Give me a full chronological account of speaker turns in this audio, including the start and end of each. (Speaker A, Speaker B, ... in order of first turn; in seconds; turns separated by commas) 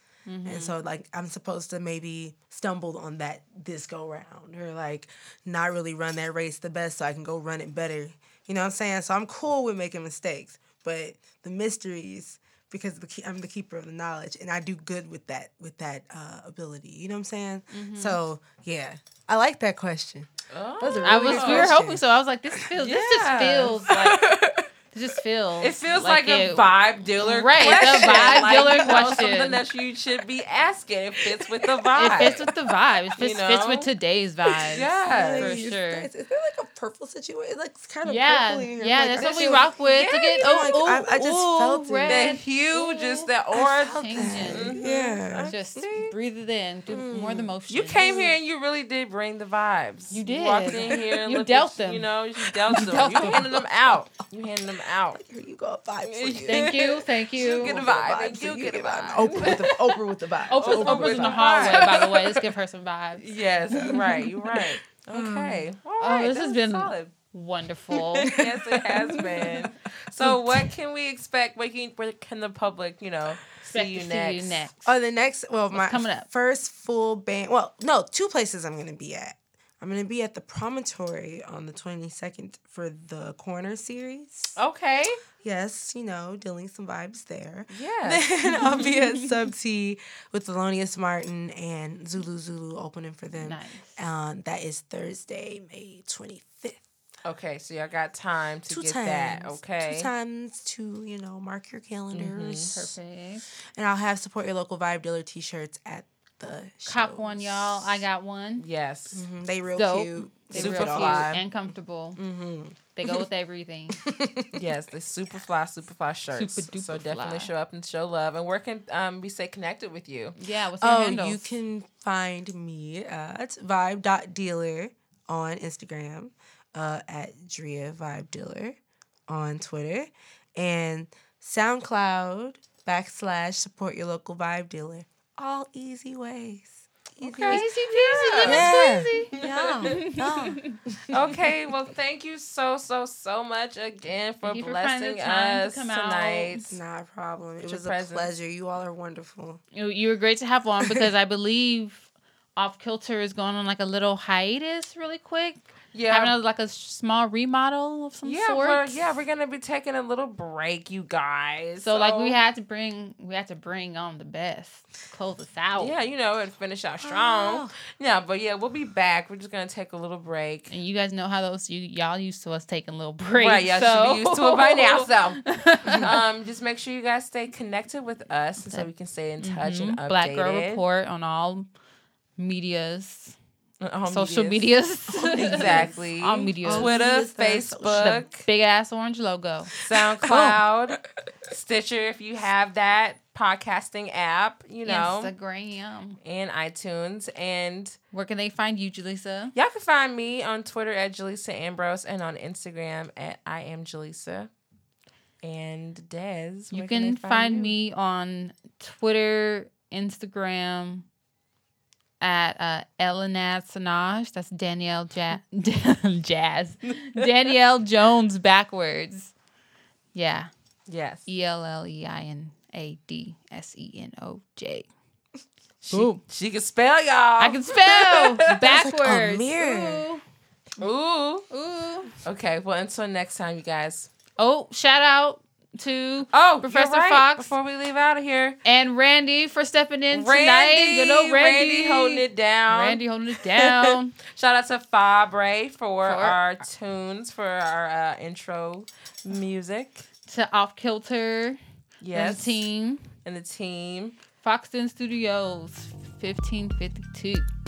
Speaker A: 0.3-0.8, Speaker B: 0.5-22.0, Speaker A: 17.7-18.2, Speaker C: 20.5-21.8, Speaker A: 21.0-24.2, Speaker C: 22.8-23.8, Speaker B: 23.7-24.7, Speaker A: 24.9-29.6, Speaker C: 25.6-32.4, Speaker B: 27.6-29.3, Speaker B: 31.2-32.8, Speaker A: 31.9-36.1, Speaker C: 33.2-33.9, Speaker B: 34.5-39.7, Speaker C: 34.6-35.6, Speaker A: 38.0-43.3, Speaker C: 39.2-40.7, Speaker B: 40.4-42.4, Speaker C: 42.1-46.1, Speaker B: 43.5-45.5, Speaker A: 43.9-44.8, Speaker A: 45.4-48.3, Speaker B: 46.9-48.4, Speaker C: 47.7-55.2, Speaker A: 50.1-52.1, Speaker B: 50.7-51.2, Speaker B: 52.6-53.6, Speaker A: 52.7-53.5, Speaker B: 55.1-62.1, Speaker C: 56.0-59.9, Speaker A: 56.5-57.8, Speaker A: 60.5-63.2, Speaker C: 60.5-62.5, Speaker C: 63.2-67.1, Speaker B: 63.7-65.7, Speaker A: 66.0-68.4, Speaker B: 68.2-70.7, Speaker C: 68.2-74.7, Speaker A: 73.7-74.9, Speaker B: 74.8-84.6, Speaker A: 75.7-76.3, Speaker C: 84.6-85.2, Speaker B: 85.4-96.8, Speaker C: 87.7-88.3, Speaker A: 88.5-89.3, Speaker A: 93.4-94.0, Speaker C: 97.2-100.1, Speaker B: 98.7-102.9, Speaker C: 102.1-102.8, Speaker A: 102.7-103.5, Speaker B: 103.8-108.0, Speaker A: 106.9-108.7, Speaker C: 108.6-109.2, Speaker B: 109.1-111.4, Speaker A: 109.8-112.2, Speaker C: 110.5-111.4, Speaker B: 112.2-113.2, Speaker A: 113.0-114.0, Speaker B: 114.0-114.6, Speaker C: 114.5-120.4, Speaker A: 116.3-117.5, Speaker A: 120.4-121.5, Speaker B: 120.8-137.7, Speaker C: 137.3-140.1, Speaker A: 137.5-140.8, Speaker B: 138.4-141.4, Speaker C: 141.1-146.8, Speaker A: 144.4-146.7, Speaker B: 146.7-149.6, Speaker C: 147.6-148.3, Speaker A: 149.7-159.1, Speaker B: 150.8-151.1, Speaker C: 155.9-156.4, Speaker C: 158.2-162.4, Speaker A: 161.8-165.9, Speaker C: 165.8-170.7, Speaker B: 167.0-167.7, Speaker A: 170.7-176.2, Speaker C: 173.3-180.8, Speaker A: 178.7-181.7, Speaker A: 182.4-183.3, Speaker C: 183.8-188.4, Speaker A: 184.1-186.9, Speaker B: 185.3-186.0, Speaker B: 186.6-188.3, Speaker A: 187.9-189.7, Speaker C: 189.8-195.3, Speaker B: 189.9-191.0, Speaker A: 194.8-196.2, Speaker C: 196.2-198.0, Speaker A: 198.1-199.5, Speaker C: 199.6-204.5, Speaker C: 205.4-207.8, Speaker A: 206.7-211.1, Speaker A: 212.2-219.3, Speaker C: 216.9-217.3, Speaker A: 220.1-220.5, Speaker C: 220.9-221.3, Speaker A: 221.3-224.9, Speaker A: 225.8-226.2, Speaker C: 226.2-228.6, Speaker A: 227.4-230.2, Speaker B: 228.6-230.1, Speaker C: 230.8-231.5, Speaker A: 231.5-232.1, Speaker C: 232.2-234.1, Speaker A: 234.4-237.5, Speaker C: 236.3-238.6, Speaker A: 238.7-244.1, Speaker C: 240.1-250.1, Speaker A: 246.0-246.4, Speaker A: 250.3-251.6, Speaker C: 252.0-252.7, Speaker A: 252.1-253.1, Speaker C: 253.2-254.2, Speaker A: 254.4-257.5